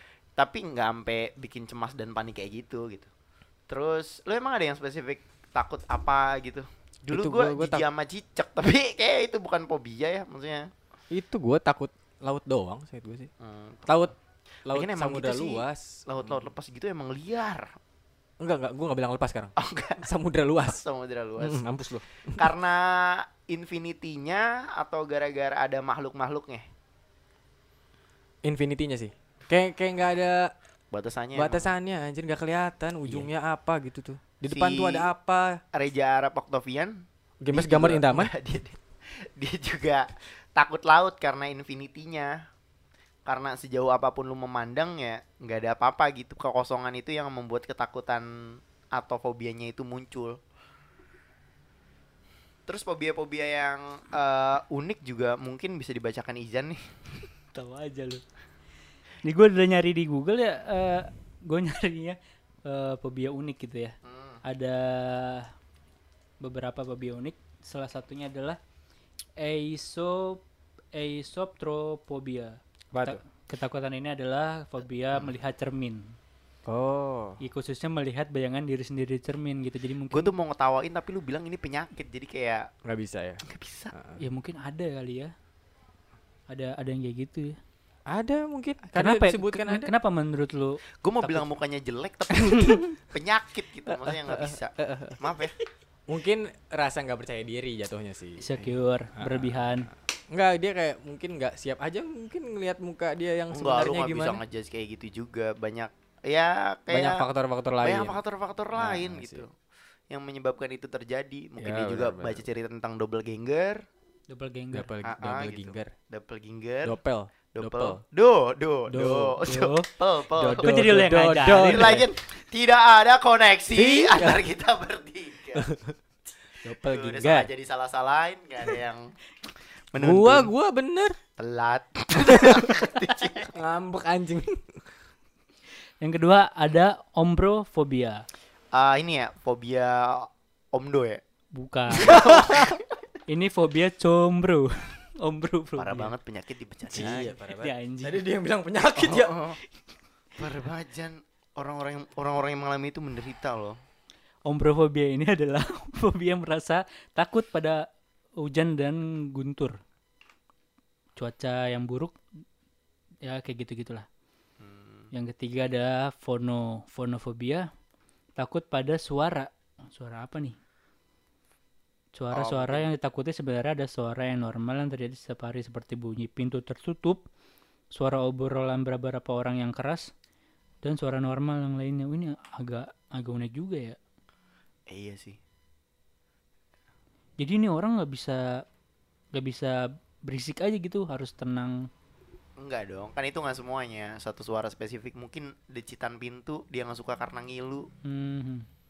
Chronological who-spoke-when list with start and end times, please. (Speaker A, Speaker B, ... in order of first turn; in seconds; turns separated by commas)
Speaker A: 0.4-3.1, Speaker A: 3.7-10.7, Speaker B: 7.1-7.9, Speaker B: 11.1-13.3, Speaker A: 13.4-14.1, Speaker B: 13.9-14.1, Speaker B: 14.7-16.4, Speaker A: 14.7-17.8, Speaker B: 18.4-20.8, Speaker A: 19.6-20.1, Speaker A: 20.6-21.7, Speaker B: 21.4-22.5, Speaker A: 22.4-26.7, Speaker B: 28.4-30.5, Speaker A: 30.9-31.7, Speaker B: 31.4-35.6, Speaker A: 34.5-35.1, Speaker A: 35.7-42.5, Speaker B: 37.4-38.3, Speaker A: 43.3-50.4, Speaker A: 52.7-56.8, Speaker C: 57.5-58.2, Speaker C: 59.2-65.5, Speaker A: 64.0-64.4, Speaker C: 66.4-68.6, Speaker C: 69.4-70.4, Speaker C: 70.9-76.2, Speaker B: 72.9-73.2, Speaker B: 76.7-77.4, Speaker C: 77.4-80.3, Speaker A: 80.1-82.7, Speaker B: 82.8-84.2, Speaker A: 83.5-83.9, Speaker C: 84.2-85.3, Speaker C: 86.5-87.6, Speaker B: 88.1-89.9, Speaker C: 88.9-91.5, Speaker A: 91.0-95.5, Speaker B: 92.5-92.9, Speaker B: 93.9-95.5, Speaker B: 96.1-104.4, Speaker C: 98.4-99.9, Speaker A: 103.5-107.2, Speaker B: 106.9-108.2, Speaker A: 107.8-109.5, Speaker B: 108.7-109.4, Speaker A: 110.1-113.8, Speaker B: 111.6-112.4, Speaker C: 114.3-114.9, Speaker B: 114.7-115.9, Speaker A: 115.0-117.0, Speaker B: 116.8-118.0, Speaker A: 117.6-120.9, Speaker B: 118.9-119.4, Speaker C: 119.5-119.9, Speaker B: 120.4-122.1, Speaker C: 120.6-122.0, Speaker A: 121.6-125.7, Speaker B: 123.7-124.4, Speaker B: 125.6-125.9, Speaker B: 126.6-127.5, Speaker A: 126.8-129.1, Speaker A: 129.9-130.5, Speaker B: 130.0-131.2, Speaker A: 131.4-133.5, Speaker B: 132.2-132.9, Speaker B: 133.5-134.6, Speaker C: 136.0-138.2, Speaker A: 138.7-141.2, Speaker C: 141.6-142.3, Speaker A: 142.0-142.8, Speaker B: 142.0-142.7, Speaker C: 143.3-146.1, Speaker A: 145.8-147.3, Speaker B: 146.9-149.4, Speaker C: 147.6-148.2, Speaker A: 149.0-149.6, Speaker A: 150.4-153.8, Speaker C: 154.5-157.8, Speaker C: 158.4-159.8, Speaker C: 161.2-162.2, Speaker C: 163.2-164.1, Speaker A: 164.6-165.1, Speaker C: 165.1-167.7, Speaker C: 168.4-170.6, Speaker C: 172.1-177.2, Speaker A: 172.3-172.9, Speaker C: 177.9-180.1, Speaker C: 180.8-184.0, Speaker A: 184.9-185.4, Speaker C: 187.4-188.6, Speaker C: 189.3-191.9, Speaker A: 192.6-197.9, Speaker C: 198.1-198.7